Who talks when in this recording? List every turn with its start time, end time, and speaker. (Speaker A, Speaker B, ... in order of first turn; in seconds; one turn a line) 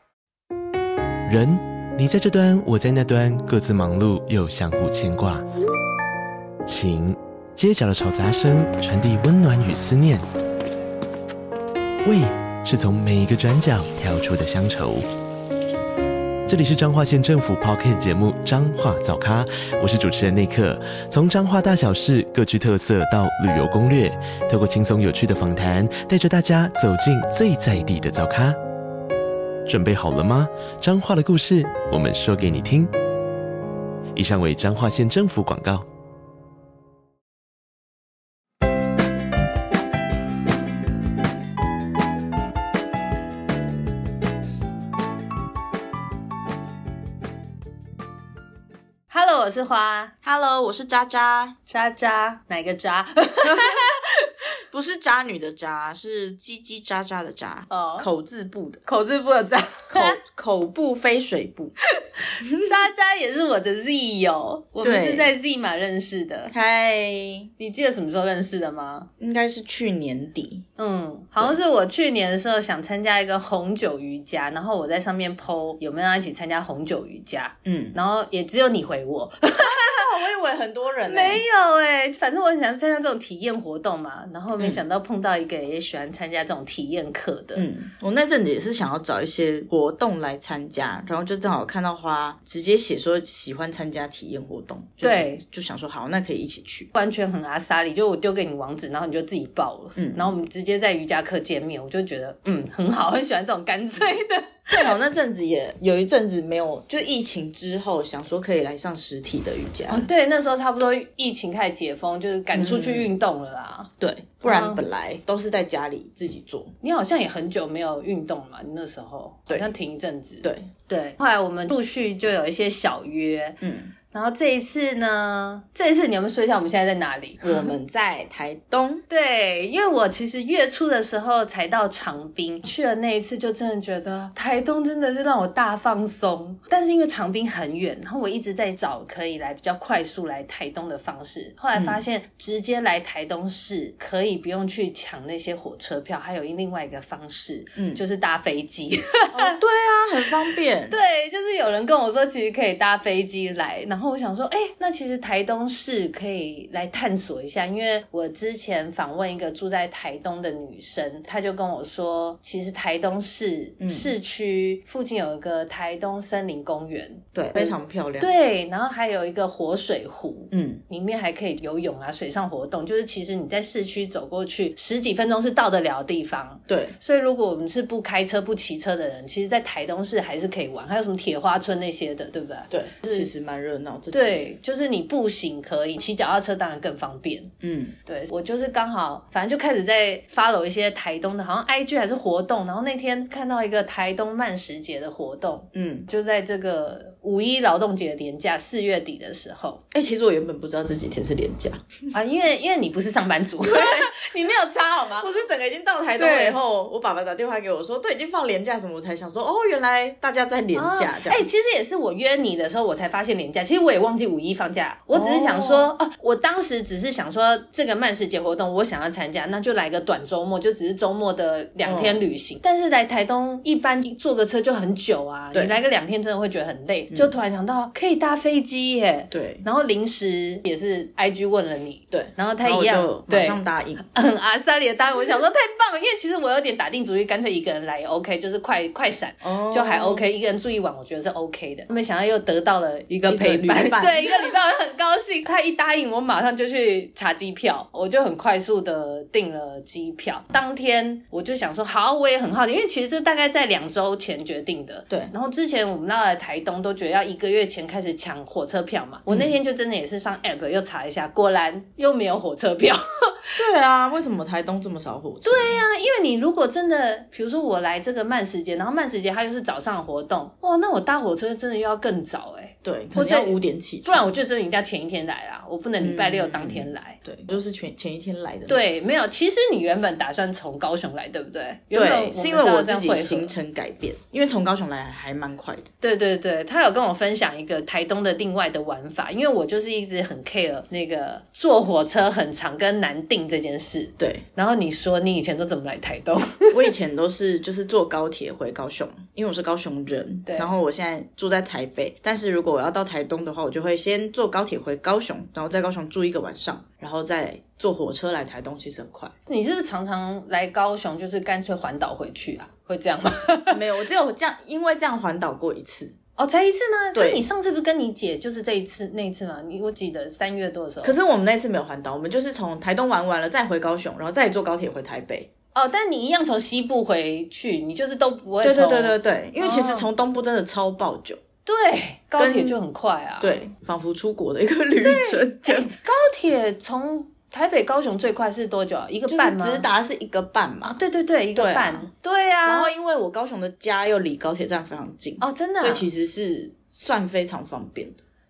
Speaker A: 1.2-5.5
Speaker A: 6.7-10.3
Speaker A: 12.0-15.1
Speaker A: 16.5-28.6
Speaker A: 29.7-32.9
Speaker A: 34.1-35.9
Speaker B: 49.1-50.1
Speaker C: 50.2-51.6
Speaker B: 51.7-54.0
Speaker C: 53.4-54.1
Speaker C: 54.7-58.8
Speaker B: 57.7-58.1
Speaker B: 58.9-60.2
Speaker C: 59.9-61.7
Speaker C: 62.4-62.8
Speaker B: 62.6-66.5
Speaker C: 64.8-65.3
Speaker C: 66.5-67.5
Speaker B: 67.6-69.1
Speaker C: 69.2-70.7
Speaker B: 70.8-80.0
Speaker C: 77.7-78.0
Speaker C: 79.6-81.4
Speaker B: 81.1-87.7
Speaker C: 87.5-96.9
Speaker B: 95.0-95.4
Speaker B: 96.9-104.9
Speaker C: 100.0-100.4
Speaker C: 104.7-110.1
Speaker B: 109.9-113.9
Speaker C: 112.5-113.1
Speaker C: 114.0-116.7
Speaker B: 114.4-114.8
Speaker B: 116.8-127.7
Speaker C: 120.4-120.7
Speaker C: 123.6-123.9
Speaker C: 127.4-129.0
Speaker B: 129.1-149.6
Speaker C: 141.8-142.0
Speaker C: 147.8-148.0
Speaker C: 149.3-151.0
Speaker B: 150.9-183.3
Speaker C: 163.8-164.1
Speaker C: 167.3-168.3
Speaker C: 170.5-170.8
Speaker C: 176.7-177.0
Speaker C: 182.7-184.5
Speaker B: 184.1-187.5
Speaker C: 187.6-187.9
Speaker B: 188.1-199.8
Speaker C: 195.7-196.1
Speaker C: 199.9-202.1
Speaker B: 202.1-205.3
Speaker C: 203.6-204.1
Speaker C: 205.2-211.5
Speaker B: 206.2-206.6
Speaker B: 210.8-233.6
Speaker C: 215.1-215.9
Speaker C: 221.8-222.2
Speaker C: 225.5-225.8
Speaker C: 229.3-229.7
Speaker C: 232.1-234.0
Speaker B: 234.1-263.5
Speaker C: 239.4-240.2
Speaker C: 243.2-244.6
Speaker C: 259.3-259.6
Speaker C: 263.6-265.8
Speaker B: 265.4-277.2
Speaker C: 272.8-274.3
Speaker C: 276.0-278.9
Speaker B: 278.7-283.5
Speaker C: 281.9-285.9
Speaker B: 286.0-296.9
Speaker C: 294.2-294.4
Speaker C: 296.7-309.3
Speaker B: 300.5-300.7
Speaker B: 309.5-313.8
Speaker C: 313.7-316.1
Speaker B: 316.4-321.2
Speaker C: 317.1-317.4
Speaker C: 321.0-325.5
Speaker B: 325.8-330.1
Speaker C: 328.6-331.4
Speaker B: 331.7-333.6
Speaker C: 332.4-332.8
Speaker C: 333.4-335.9
Speaker B: 335.0-339.9
Speaker C: 339.3-341.0
Speaker B: 340.9-342.9
Speaker C: 341.5-342.1
Speaker C: 342.7-348.2
Speaker B: 345.4-346.1